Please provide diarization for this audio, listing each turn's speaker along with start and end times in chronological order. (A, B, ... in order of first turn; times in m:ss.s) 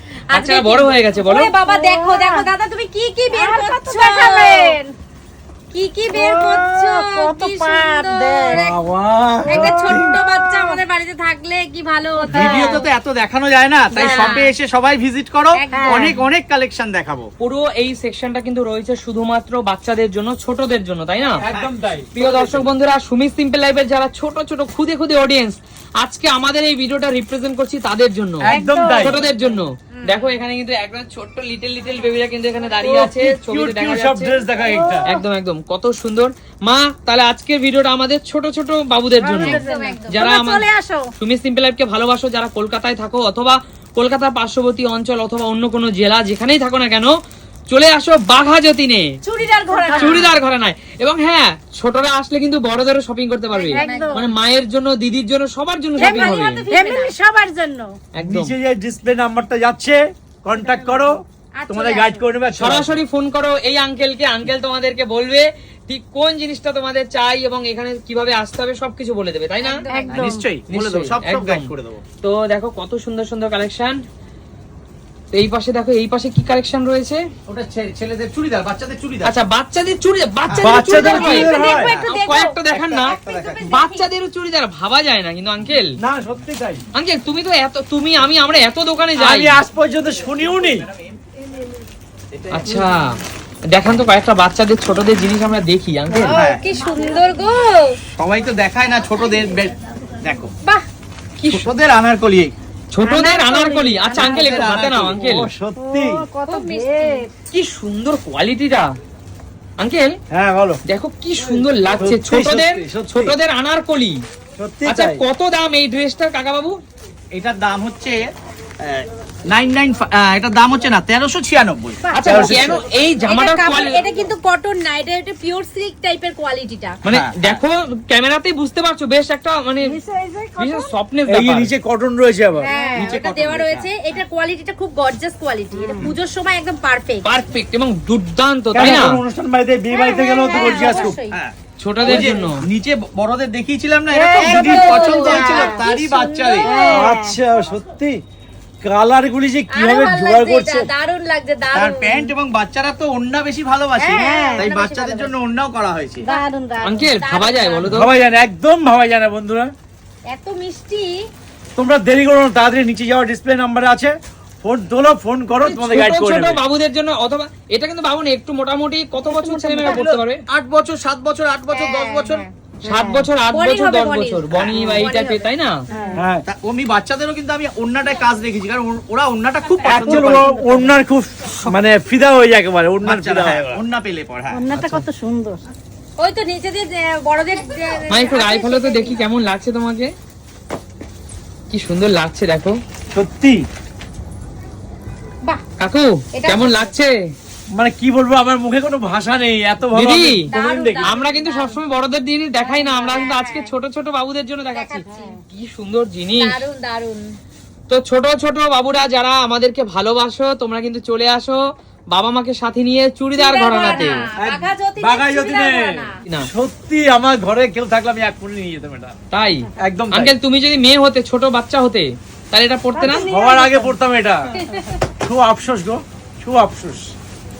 0:00.3-0:01.5 A
0:00.3-0:04.8 B
0:01.6-0:02.5 C
0:03.3-0:04.9 C
0:05.7-0:08.8 B
0:06.1-0:08.6 C
0:08.5-0:10.1 D
0:09.5-0:10.8 C
0:09.5-0:12.5 B
0:12.3-0:12.9 C
0:12.3-0:17.3 E
0:13.9-0:14.5 C
0:14.0-0:14.5 B
0:15.5-0:16.2 B
0:15.7-0:16.2 C
0:17.4-0:21.4 A
0:21.4-0:22.6 D
0:22.1-0:28.5 A
0:28.4-0:29.2 D
0:28.4-0:29.2 C
0:29.0-0:34.4 A
0:29.9-0:30.4 B
0:32.8-0:35.1 D
0:34.6-0:35.2 C
0:35.1-0:40.6 A
0:39.2-0:41.1 C
0:39.4-0:40.2 B
0:41.2-0:47.1 A
0:47.7-0:49.1 A
0:49.2-0:50.3 B
0:49.7-0:50.3 C
0:49.9-0:56.6 A
0:53.5-0:54.3 B
0:53.7-0:54.2 C
0:56.0-0:57.1 B
0:56.0-0:57.9 C
0:58.1-0:58.5 A
0:58.2-1:03.0 D
1:00.6-1:01.2 C
1:01.6-1:02.2 B
1:02.6-1:09.8 A
1:09.6-1:10.2 B
1:09.9-1:10.5 C
1:10.1-1:12.0 E
1:10.7-1:11.7 A
1:12.2-1:14.0 A
1:15.3-1:17.2 A
1:17.5-1:19.3 E
1:19.2-1:25.9 A
1:20.5-1:22.1 E
1:20.6-1:21.9 D
1:21.0-1:24.1 B
1:22.7-1:23.7 E
1:26.0-1:26.8 D
1:26.9-1:29.6 A
1:29.2-1:30.8 D
1:30.2-1:31.2 E
1:32.3-1:32.9 E
1:32.5-1:33.0 A
1:33.7-1:36.4 A
1:36.1-1:37.9 B
1:36.3-1:36.6 E
1:38.1-1:40.5 E
1:41.4-1:41.7 A
1:41.4-1:42.5 E
1:42.9-1:45.5 A
1:43.0-1:44.8 C
1:44.1-1:45.4 E
1:45.2-1:46.2 D
1:45.8-1:47.3 C
1:46.5-1:47.3 B
1:47.5-1:48.9 A
1:49.8-1:50.1 A
1:50.3-1:50.8 D
1:50.9-1:54.2 A
1:52.0-1:53.4 D
1:54.6-1:55.2 D
1:54.9-1:56.8 A
1:57.3-1:58.2 E
1:58.8-2:02.1 E
2:02.0-2:02.5 C
2:02.1-2:04.0 A
2:02.2-2:02.8 D
2:03.3-2:07.0 B
2:07.0-2:10.0 A
2:07.1-2:07.6 E
2:09.8-2:10.9 C
2:10.6-2:11.7 A
2:11.3-2:12.7 D
2:12.6-2:17.3 B
2:12.7-2:13.1 C
2:13.0-2:13.9 E
2:15.7-2:16.1 C
2:17.2-2:19.1 A
2:18.7-2:21.2 D
2:19.9-2:21.4 B
2:20.5-2:21.1 C
2:21.3-2:26.7 E
2:21.8-2:22.6 A
2:24.1-2:25.8 C
2:24.4-2:26.9 B
2:26.6-2:27.4 C
2:26.9-2:28.2 D
2:28.8-2:30.9 D
2:29.7-2:32.3 B
2:31.7-2:36.3 E
2:34.0-2:35.3 B
2:34.1-2:34.7 C
2:36.2-2:37.1 C
2:36.8-2:38.1 A
2:37.1-2:37.9 B
2:37.9-2:39.7 D
2:40.3-2:41.1 B
2:41.8-2:46.6 D
2:45.6-2:50.4 A
2:49.3-2:50.1 C
2:49.8-2:52.4 E
2:51.7-2:52.4 B
2:51.8-2:52.2 C
2:52.8-2:53.3 C
2:52.8-2:55.8 A
2:53.5-2:56.2 B
2:54.5-2:55.0 E
2:55.9-2:56.3 C
2:56.2-2:56.4 D
2:56.4-3:00.5 E
2:59.8-3:03.8 D
2:59.9-3:00.9 C
3:03.0-3:04.6 E
3:04.5-3:05.6 C
3:04.7-3:05.0 A
3:06.2-3:09.2 B
3:08.1-3:10.1 A
3:11.7-3:12.8 A
3:13.1-3:13.6 D
3:15.8-3:17.1 A
3:16.3-3:16.9 B
3:17.7-3:21.1 D
3:19.9-3:20.5 A
3:20.5-3:21.8 B
3:21.0-3:26.6 A
3:22.6-3:23.1 C
3:22.7-3:23.7 B
3:24.8-3:25.4 B
3:25.0-3:25.4 C
3:26.4-3:27.2 B
3:27.9-3:31.6 A
3:32.1-3:34.2 A
3:33.4-3:36.2 B
3:33.8-3:34.2 C
3:34.4-3:39.1 D
3:39.3-3:43.2 A
3:39.8-3:40.3 D
3:42.9-3:44.0 C
3:43.0-3:44.4 D
3:44.5-3:45.0 B
3:45.2-3:47.1 D